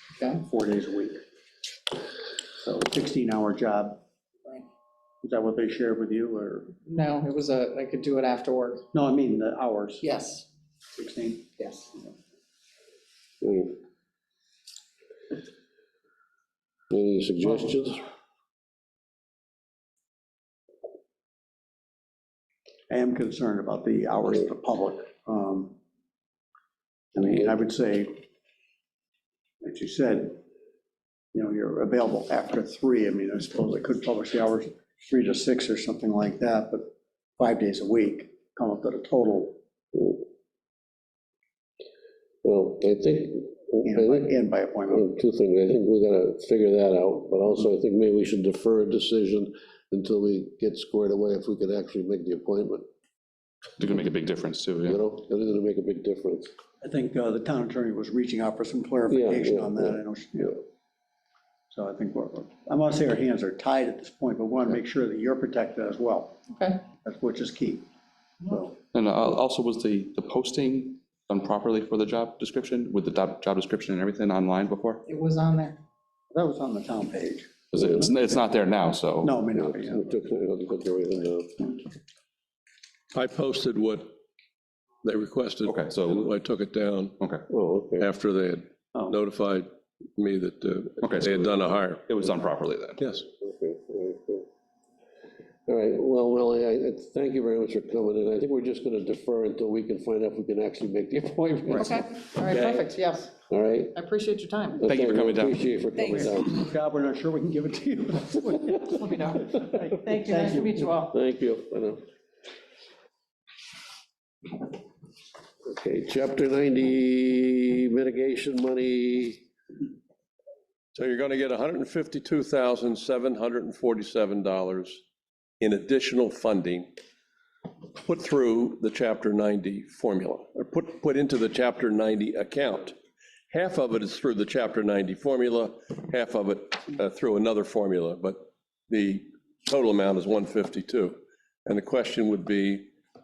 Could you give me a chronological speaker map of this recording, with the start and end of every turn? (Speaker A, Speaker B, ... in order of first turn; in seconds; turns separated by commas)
Speaker A: 0.4-1.2, Speaker A: 2.6-4.0, Speaker A: 5.2-6.7, Speaker B: 6.8-8.8, Speaker A: 8.9-10.0, Speaker B: 10.0-10.5, Speaker A: 11.0-12.1, Speaker B: 11.6-11.8, Speaker C: 13.4-13.8, Speaker C: 16.9-18.0, Speaker A: 22.9-25.8, Speaker A: 27.1-28.2, Speaker A: 29.6-30.4, Speaker A: 31.3-39.6, Speaker C: 42.4-44.3, Speaker A: 43.8-45.1, Speaker C: 44.9-52.9, Speaker D: 53.8-55.0, Speaker C: 54.9-56.5, Speaker A: 56.8-60.6, Speaker C: 59.1-60.0, Speaker A: 61.7-66.4, Speaker B: 66.5-66.8, Speaker A: 67.0-67.8, Speaker A: 68.5-68.7, Speaker D: 68.9-75.0, Speaker B: 75.1-75.8, Speaker A: 76.3-78.1, Speaker D: 77.7-79.3, Speaker A: 79.2-80.2, Speaker C: 79.6-81.7, Speaker E: 83.1-84.2, Speaker E: 85.0-87.2, Speaker D: 85.7-86.3, Speaker D: 87.2-87.5, Speaker C: 87.5-88.1, Speaker E: 88.0-92.1, Speaker D: 91.0-91.5, Speaker D: 92.1-93.0, Speaker E: 93.0-93.2, Speaker C: 93.4-94.5, Speaker C: 95.7-102.8, Speaker B: 101.8-103.3, Speaker C: 103.5-103.9, Speaker B: 103.9-104.9, Speaker C: 104.8-106.5, Speaker D: 104.9-105.6, Speaker B: 106.0-106.3, Speaker A: 106.1-110.9, Speaker B: 108.9-111.1, Speaker C: 111.1-112.0, Speaker C: 115.7-119.4, Speaker E: 120.9-125.0, Speaker E: 125.6-126.9, Speaker E: 127.9-133.0, Speaker E: 133.5-142.9